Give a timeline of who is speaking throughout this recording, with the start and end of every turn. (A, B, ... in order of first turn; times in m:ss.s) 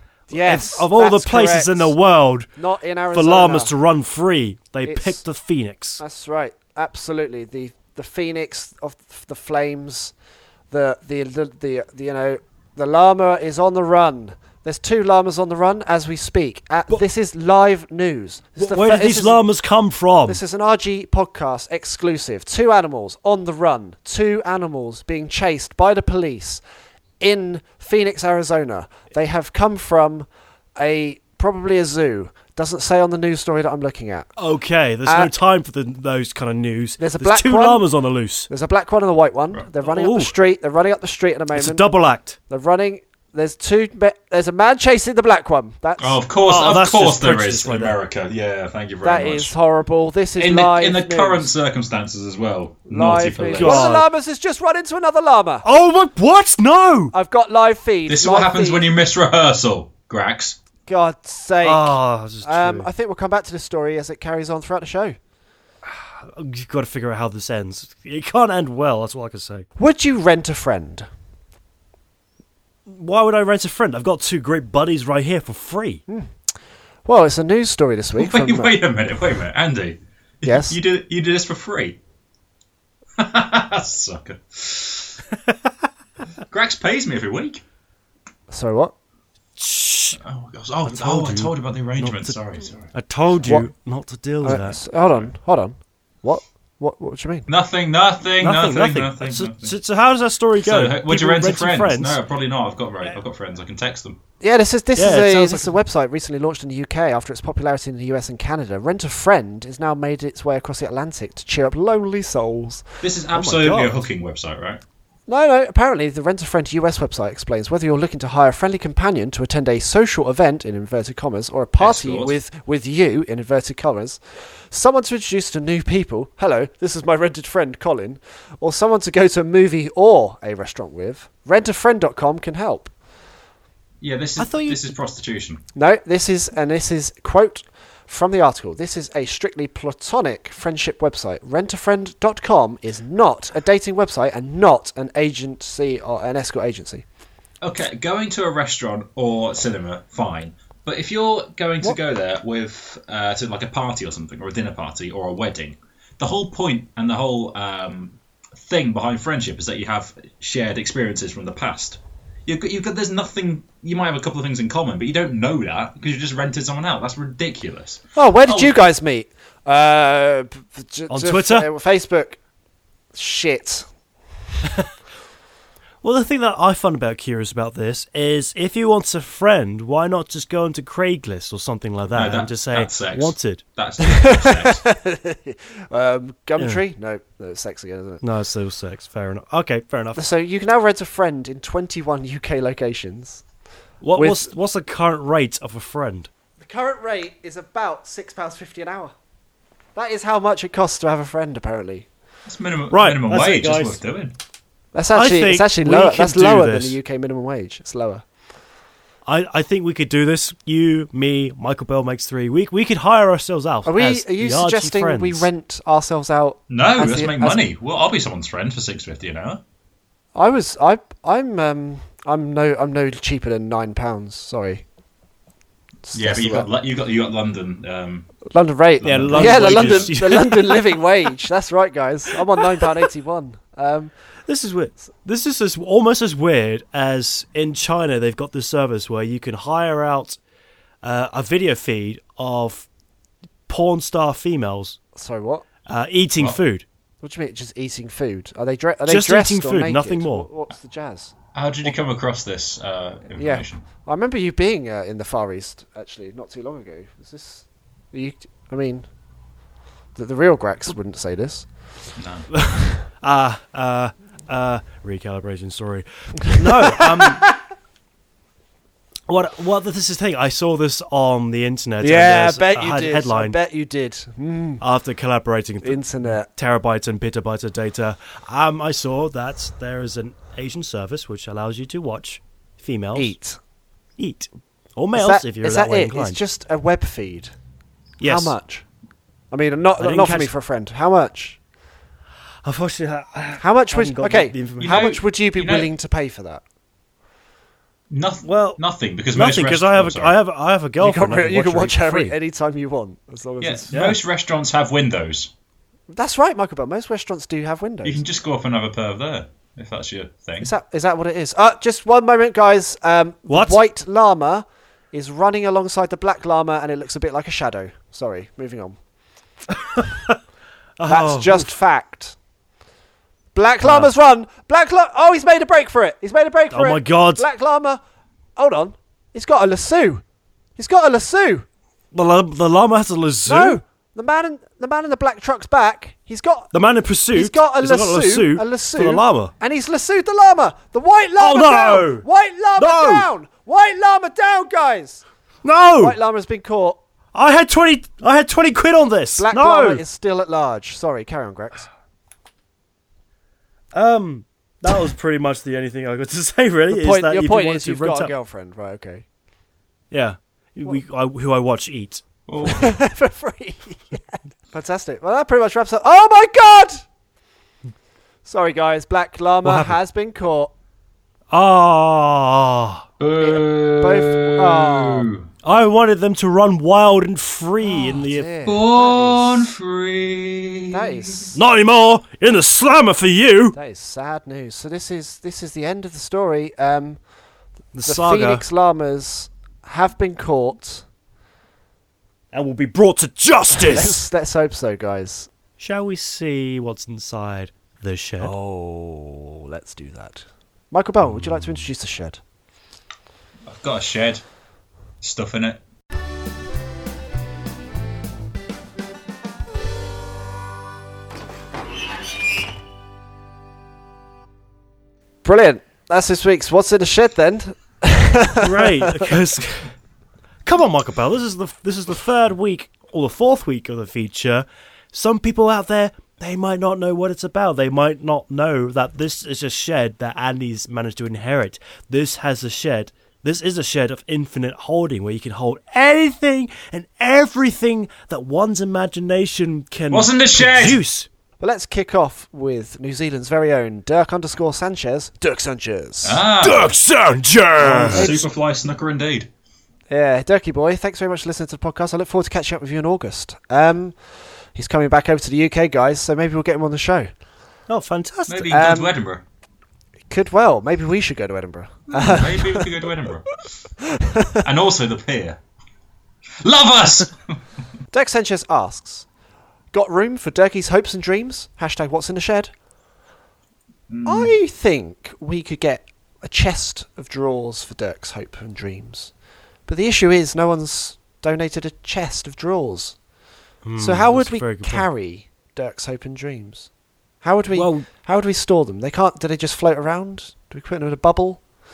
0:00.3-0:01.9 A
0:00.3-0:02.5 B
0:02.6-0:03.7 A
0:03.1-0:06.0 B
0:04.8-0:05.2 A
0:06.0-0:10.1 A
0:10.7-0:19.4 A
0:18.6-0:20.4 B
0:20.3-0:26.6 A
0:27.2-0:34.3 A
0:34.4-0:38.5 B
0:35.1-0:35.3 A
0:37.0-0:37.9 A
0:38.5-0:41.9 A
0:39.8-0:40.3 B
0:41.5-0:42.4 B
0:42.5-0:46.2 A
0:46.0-0:49.5 C
0:46.4-0:48.0 B
0:49.0-0:51.5 A
0:50.4-0:53.9 C
0:52.9-0:55.7 A
0:53.6-0:54.0 B
0:55.6-0:57.1 B
0:57.1-0:58.9 A
0:58.1-1:00.6 C
1:00.9-1:05.2 A
1:01.6-1:02.9 B
1:05.8-1:09.7 B
1:09.8-1:11.1 A
1:12.9-1:16.0 B
1:16.1-1:16.3 A
1:17.0-1:18.8 A
1:18.2-1:22.0 C
1:20.4-1:20.8 A
1:23.2-1:25.2 C
1:26.5-1:27.6 C
1:28.5-1:28.9 A
1:29.6-1:30.2 B
1:30.2-1:32.9 C
1:30.9-1:32.4 B
1:32.9-1:34.8 B
1:34.4-1:37.5 A
1:37.5-1:39.8 C
1:38.4-1:42.2 B
1:40.6-1:44.2 C
1:44.4-1:53.0 A
1:45.0-1:45.8 B
1:53.0-1:54.8 C
1:53.3-1:54.0 B
1:55.3-2:12.9 A
2:01.8-2:02.4 C
2:14.0-2:15.6 C
2:14.4-2:14.9 B
2:15.8-2:27.0 A
2:27.6-2:48.8 C
2:48.2-2:52.4 A
2:51.1-2:51.7 B
2:53.1-2:53.9 A
2:54.6-2:54.9 B
2:56.0-3:03.6 B
3:02.1-3:04.8 C
3:04.0-3:08.2 A
3:08.2-3:10.2 B
3:10.2-3:13.4 A
3:14.0-3:16.3 B
3:14.2-3:14.5 A
3:16.6-3:19.1 A
3:20.0-3:22.1 A
3:22.5-3:24.4 C
3:22.9-3:24.0 B
3:24.9-3:28.2 A
3:25.1-3:27.0 B
3:29.3-3:35.5 B
3:33.8-3:37.6 A
3:36.7-3:39.6 C
3:40.4-3:44.8 A
3:46.1-3:46.7 A
3:46.1-3:48.4 C
3:48.5-3:54.1 A
3:49.0-3:50.2 C
3:49.0-3:50.9 B
3:52.6-3:52.9 B
3:54.5-4:00.4 B
4:01.0-4:02.9 B
4:03.7-4:05.0 B
4:05.2-4:05.7 A
4:05.9-4:06.8 B
4:07.2-4:12.0 A
4:09.1-4:10.5 B
4:11.6-4:13.8 C
4:13.4-4:19.1 A
4:20.2-4:21.7 A
4:22.2-4:22.5 C
4:22.6-4:27.5 B
4:26.6-4:27.6 A
4:29.3-4:33.6 B
4:32.0-4:34.8 A
4:34.8-4:43.3 B
4:35.8-4:36.5 A
4:43.2-4:43.6 A
4:44.2-4:46.4 B
4:45.1-4:47.6 A
4:48.2-4:48.6 B
4:48.2-4:48.9 A
4:49.5-4:51.6 A
4:50.0-4:50.5 B
4:52.6-4:55.0 B
4:53.6-4:56.6 A
4:54.8-4:55.9 C
4:58.1-5:00.4 C
4:58.4-4:58.8 B
4:59.3-5:02.4 B
5:01.0-5:03.9 A
5:03.6-5:05.5 C
5:03.9-5:04.2 B
5:06.1-5:08.2 A
5:08.0-5:10.7 C
5:10.6-5:19.0 A
5:13.5-5:13.8 B
5:19.7-5:20.4 B
5:21.0-5:21.7 B
5:21.1-5:22.4 A
5:23.5-5:28.0 A
5:23.8-5:24.1 B
5:26.7-5:27.5 B
5:28.6-5:30.2 A
5:30.8-5:31.7 A
5:32.1-5:33.8 B
5:33.5-5:36.7 A
5:36.7-5:39.5 B
5:37.3-5:45.2 A
5:41.4-5:42.2 B
5:42.8-5:43.3 B
5:45.6-5:46.2 B
5:46.0-5:47.0 A
5:47.3-5:50.0 B
5:49.4-5:51.9 A
5:53.9-5:58.3 B
5:56.9-5:59.2 A
6:00.1-6:02.2 B
6:02.5-6:02.9 C
6:02.6-6:07.0 A
6:08.4-6:10.7 A
6:09.6-6:10.0 B
6:11.5-6:13.0 B
6:13.2-6:15.5 C
6:13.4-6:15.3 A
6:15.6-6:18.5 B
6:17.8-6:19.7 A
6:18.6-6:21.6 C
6:20.9-6:21.6 A
6:21.5-6:23.8 B
6:23.7-6:27.2 A
6:27.9-6:28.6 B
6:28.0-6:31.0 A
6:32.5-6:34.2 B
6:33.8-6:35.5 A
6:35.8-6:38.5 B
6:38.4-6:42.4 A
6:43.7-6:44.4 C
6:45.2-6:45.8 C
6:55.4-6:59.4 A
6:58.6-6:59.9 B
7:00.6-7:21.3 B
7:20.1-7:21.0 C
7:21.6-7:26.4 A
7:26.2-7:26.9 C
7:26.6-7:28.3 B
7:27.8-7:29.5 C
7:28.1-7:28.5 A
7:30.1-7:34.2 A
7:34.8-7:37.3 A
7:37.9-7:38.7 B
7:38.5-7:39.4 C
7:38.7-7:39.2 A
7:40.3-7:42.9 A
7:42.1-7:43.6 C
7:44.0-7:44.7 A
7:44.6-7:45.6 C
7:46.6-7:47.6 C
7:48.1-7:49.3 A
7:49.9-7:52.7 A
7:54.1-7:54.6 C
7:54.2-7:59.3 A
7:59.9-8:03.2 A
8:03.8-8:05.1 B
8:04.0-8:06.9 A
8:07.4-8:11.6 A
8:07.7-8:08.1 B